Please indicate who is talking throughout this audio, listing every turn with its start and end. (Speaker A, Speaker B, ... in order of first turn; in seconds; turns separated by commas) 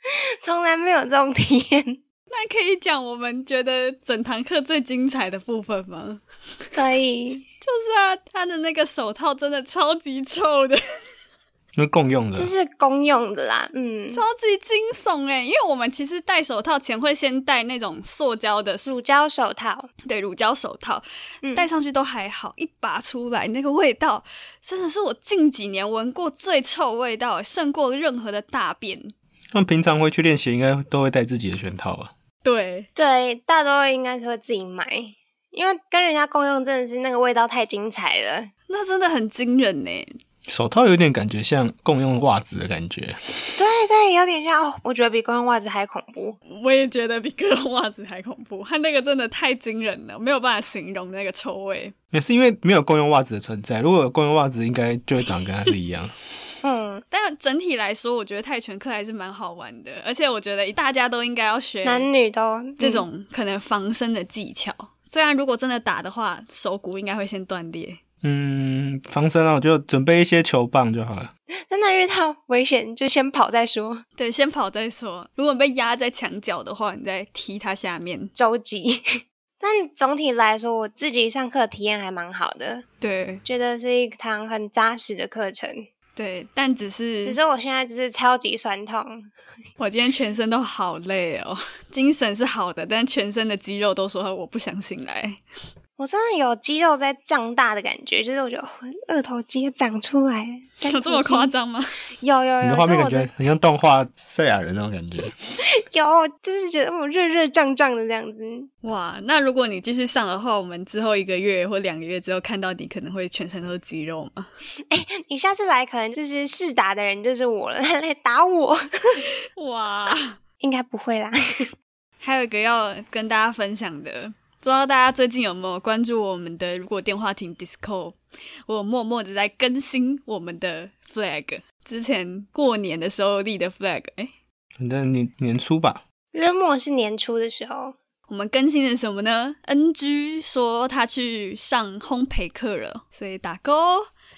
Speaker A: 0.1-2.0, Speaker B: 2.3-6.2, Speaker A: 6.7-7.5, Speaker B: 7.6-10.8, Speaker C: 11.8-12.5, Speaker A: 12.3-14.2, Speaker B: 14.1-19.0, Speaker A: 18.9-19.9, Speaker B: 20.1-29.1, Speaker C: 29.5-32.1, Speaker B: 32.4-32.9, Speaker A: 33.0-38.5, Speaker B: 38.7-40.1, Speaker C: 40.5-43.2, Speaker A: 43.5-46.4, Speaker B: 46.5-51.9, Speaker C: 52.1-56.1, Speaker A: 56.6-57.0, Speaker B: 57.1-62.1, Speaker A: 61.8-63.0, Speaker B: 62.8-68.0, Speaker C: 68.2-71.3, Speaker A: 71.7-74.0, Speaker B: 74.2-78.3, Speaker A: 78.3-79.0, Speaker A: 79.6-82.8, Speaker B: 83.0-83.4, Speaker A: 83.4-85.8, Speaker B: 86.2-87.4, Speaker A: 87.2-89.3, Speaker B: 89.8-95.4, Speaker A: 96.0-101.5, Speaker B: 100.8-101.9, Speaker A: 102.2-103.3, Speaker C: 102.6-105.3, Speaker A: 105.7-108.7, Speaker B: 108.8-114.5, Speaker A: 114.9-119.2, Speaker B: 119.6-120.4, Speaker A: 120.6-121.7, Speaker B: 122.2-134.3, Speaker C: 134.8-136.0, Speaker A: 136.3-137.9, Speaker B: 138.3-144.1